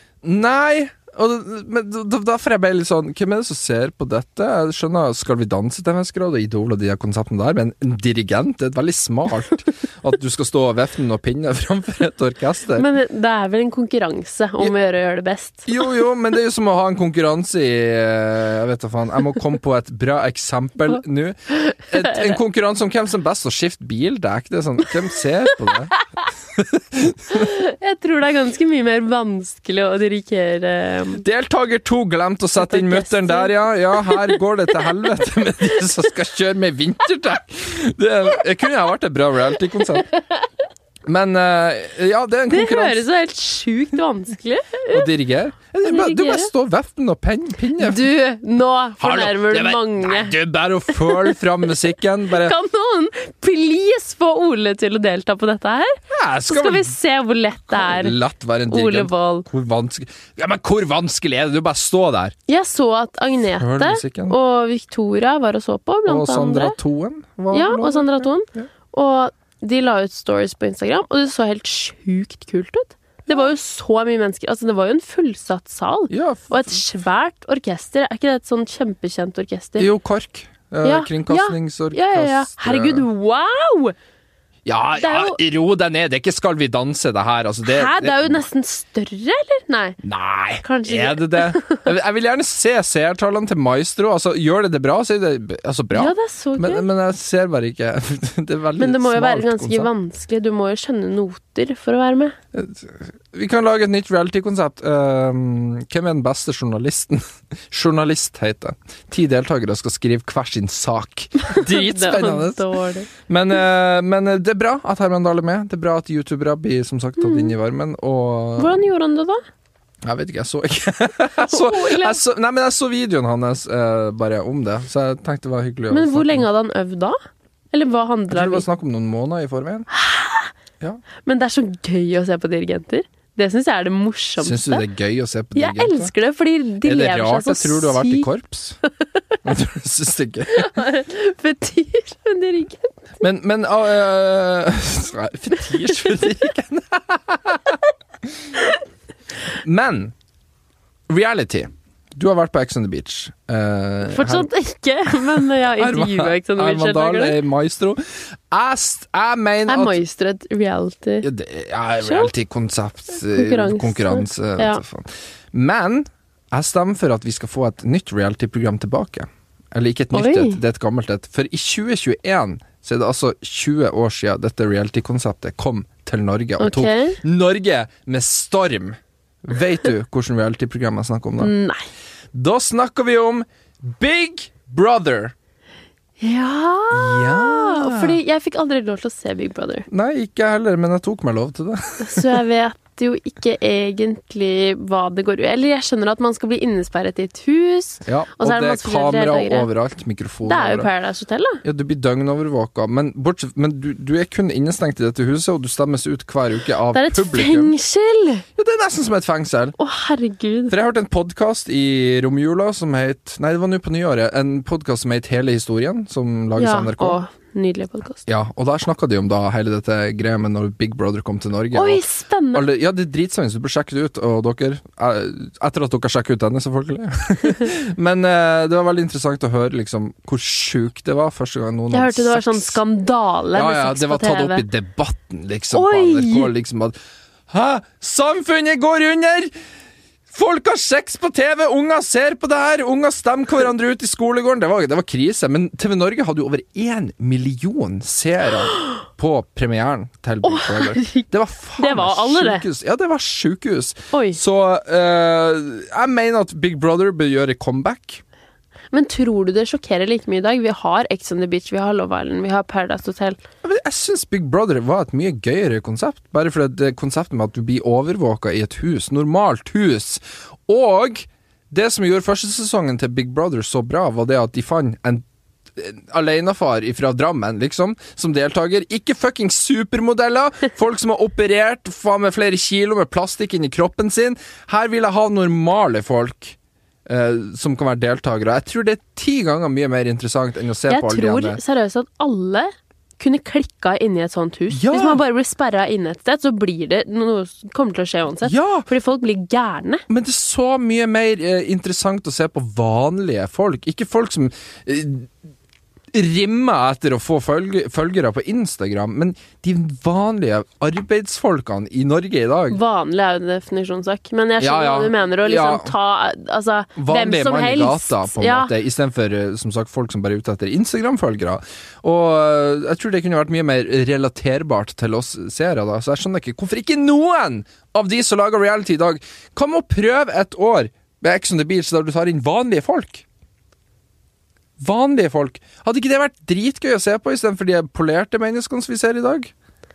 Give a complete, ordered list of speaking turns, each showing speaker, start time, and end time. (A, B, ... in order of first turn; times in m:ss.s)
0:00.2-0:12.9 A
0:12.8-0:15.7 B
0:15.7-0:26.0 A
0:21.6-0:22.4 B
0:26.5-0:27.5 A
0:27.3-0:31.2 B
0:31.2-0:40.1 A
0:32.6-0:34.9 B
0:40.0-0:40.5 B
0:41.1-0:43.0 A
0:42.5-0:45.1 B
0:44.9-0:48.0 A
0:45.8-0:46.5 B
0:47.8-0:50.4 B
0:49.0-0:52.6 A
0:50.9-0:51.4 B
0:52.3-0:58.2 B
0:56.1-0:56.9 A
0:57.7-1:02.4 A
0:58.7-0:59.5 B
1:02.5-1:06.8 B
1:03.6-1:04.4 A
1:06.1-1:08.7 A
1:07.5-1:19.9 B
1:16.1-1:16.8 A
1:19.8-1:23.1 A
1:20.8-1:24.0 B
1:24.7-1:28.5 A
1:25.0-1:25.4 B
1:27.6-1:30.0 B
1:30.0-1:39.9 A
1:30.6-1:31.8 B
1:35.9-1:36.9 B
1:38.8-1:42.4 B
1:42.5-1:52.7 A
1:51.4-1:53.1 B
1:53.3-1:58.9 A
1:57.2-1:57.6 B
1:58.6-1:59.4 B
2:00.0-2:06.5 A
2:01.4-2:02.2 B
2:05.9-2:07.2 B
2:07.7-2:08.6 B
2:08.3-2:09.9 A
2:09.9-2:10.5 B
2:11.2-2:14.8 B
2:14.4-2:16.1 A
2:15.6-2:18.3 B
2:16.8-2:18.8 A
2:19.4-2:20.7 A
2:20.5-2:23.0 B
2:23.2-2:27.8 A
2:25.9-2:26.2 B
2:29.5-2:30.1 A
2:31.1-2:34.5 A
2:34.1-2:37.4 B
2:35.1-2:40.0 A
2:39.7-2:41.3 B
2:41.2-3:01.5 A
2:42.0-2:42.3 B
2:43.3-2:44.8 B
2:50.1-2:50.6 B
2:56.6-2:57.2 B
3:01.4-3:01.8 B
3:02.3-3:05.3 A
3:06.2-3:09.9 B
3:06.9-3:08.2 A
3:09.9-3:12.3 A
3:12.0-3:19.7 B
3:18.1-3:20.9 A
3:20.5-3:21.6 B
3:21.6-3:27.7 A
3:26.9-3:28.4 B
3:28.6-3:29.8 A
3:29.8-3:30.8 B
3:30.7-3:37.2 A
3:36.6-3:38.2 B
3:38.3-3:52.8 A
3:41.7-3:42.6 B
3:51.9-3:54.6 B
3:53.5-3:57.0 A
3:55.7-3:56.5 B
3:57.5-3:59.5 A
4:00.3-4:18.2 A
4:10.4-4:11.3 B
4:11.8-4:12.7 B
4:14.1-4:14.4 B
4:18.9-4:23.4 B
4:23.6-4:35.2 A
4:35.8-4:51.6 A
4:50.9-5:00.0 B
4:54.7-4:55.2 A
4:58.4-4:58.9 A
5:00.1-5:05.3 A
5:06.1-5:12.8 A
5:12.7-5:18.7 B
5:14.6-5:16.0 A
5:17.0-5:33.2 A
5:34.8-5:39.5 A